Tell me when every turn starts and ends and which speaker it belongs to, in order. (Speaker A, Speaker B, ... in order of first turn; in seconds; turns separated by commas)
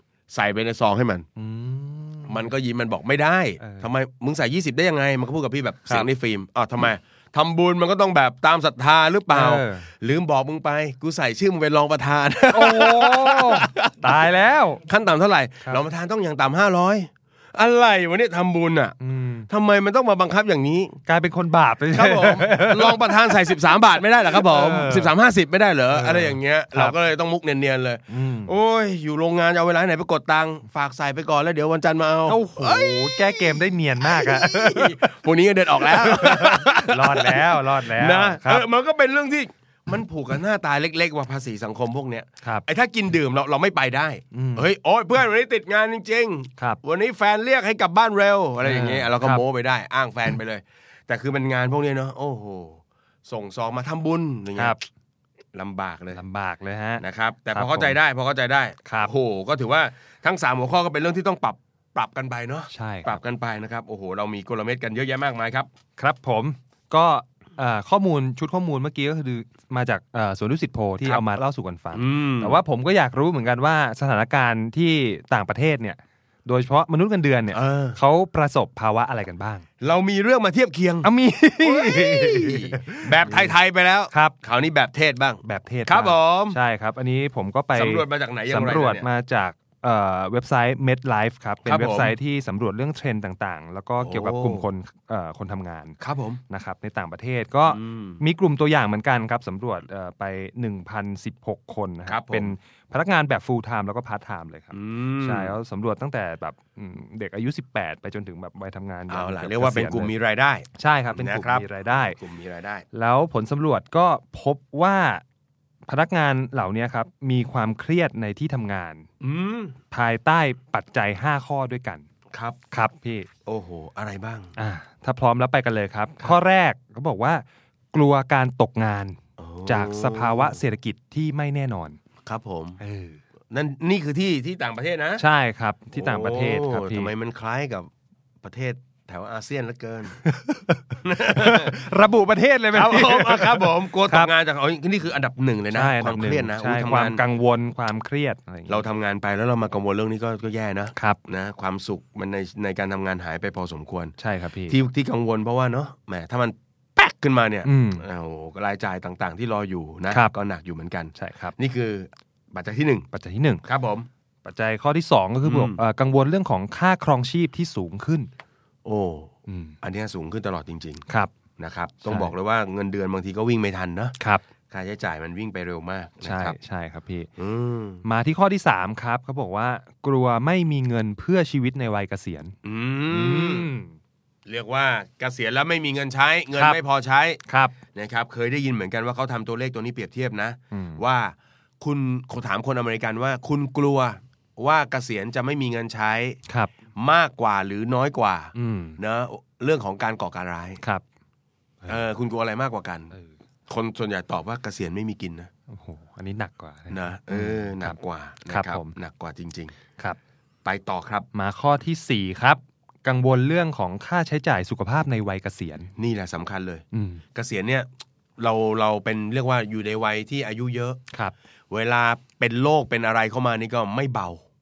Speaker A: 0.3-1.3, Speaker B: 1.4-2.4, Speaker A: 2.3-14.1, Speaker B: 3.6-3.9, Speaker B: 9.3-9.9, Speaker B: 12.5-14.8, Speaker A: 14.8-19.0, Speaker B: 19.0-19.5, Speaker A: 19.5-21.0, Speaker B: 21.1-23.6, Speaker A: 21.9-54.8, Speaker B: 24.2-25.1, Speaker B: 25.9-27.0, Speaker B: 28.1-28.5, Speaker B: 32.3-35.1, Speaker B: 35.8-38.7, Speaker B: 44.3-44.7, Speaker B: 48.6-49.4, Speaker B: 54.6-54.8, Speaker A: 55.5-56.2, Speaker B: 56.1-58.0, Speaker A: 57.0-65.7, Speaker B: 58.9-59.1, Speaker B: 62.7-63.2, Speaker B: 66.0-79.7, Speaker A: 71.0-71.3, Speaker A: 71.9-72.6, Speaker A: 77.5-78.0, Speaker A: 79.8-81.1, Speaker B: 81.0-83.5, Speaker A: 81.6-86.6, Speaker B: 84.1-84.4, Speaker B: 85.4-96.0, Speaker A: 87.8-89.1, Speaker A: 91.7-92.2, Speaker A: 94.0-94.7, Speaker A: 96.0-96.4, Speaker B: 96.5-110.1, Speaker A: 97.7-98.2, Speaker A: 102.1-102.5, Speaker A: 104.7-105.5, Speaker A: 109.1-112.8, Speaker B: 110.8-112.2, Speaker B: 112.9-115.2, Speaker B: 115.9-119.1, Speaker A: 119.2-119.8, Speaker B: 119.9-122.1, Speaker A: 122.3-122.6, Speaker B: 122.7-123.3, Speaker A: 123.5-124.5, Speaker B: 124.6-132.0, Speaker A: 129.4-130.6, Speaker A: 132.3-132.8, Speaker B: 132.8-133.2, Speaker A: 133.5-135.2, Speaker B: 135.2-137.1, Speaker A: 135.9-137.9, Speaker A: 138.4-140.2, Speaker B: 140.2-144.3, Speaker A: 141.0-141.8, Speaker A: 142.7-147.2, Speaker B: 145.7-148.8, Speaker A: 148.7-154.2, Speaker B: 150.9-151.2, Speaker B: 154.2-154.8, Speaker A: 154.7-163.1, Speaker B: 157.7-158.1, Speaker B: 161.2-161.6, Speaker B: 163.1-163.6, Speaker A: 163.7-164.1, Speaker B: 164.4-168.3, Speaker A: 165.4-165.8, Speaker A: 168.8-171.1, Speaker B: 169.5-169.8, Speaker A: 171.6-174.2, Speaker B: 172.1-172.3, Speaker A: 174.7-176.6, Speaker B: 176.2-177.3, Speaker A: 177.4-178.0, Speaker B: 178.0-182.6, Speaker A: 182.6-183.7, Speaker B: 183.1-183.9, Speaker A: 184.5-187.4, Speaker B: 186.5-186.8, Speaker B: 187.5-187.8, Speaker A: 187.9-196.4, Speaker B: 190.7-191.0, Speaker A: 197.0-200.8, Speaker B: 198.6-199.0, Speaker A: 201.9-203.1, Speaker A: 203.7-205.5, Speaker B: 205.7-207.9, Speaker A: 206.9-209.7, Speaker B: 208.5-208.9, Speaker A: 210.7-211.3, Speaker B: 211.3-215.9, Speaker A: 216.0-217.9, Speaker B: 216.9-217.2, Speaker A: 218.4-221.0, Speaker A: 221.7-224.4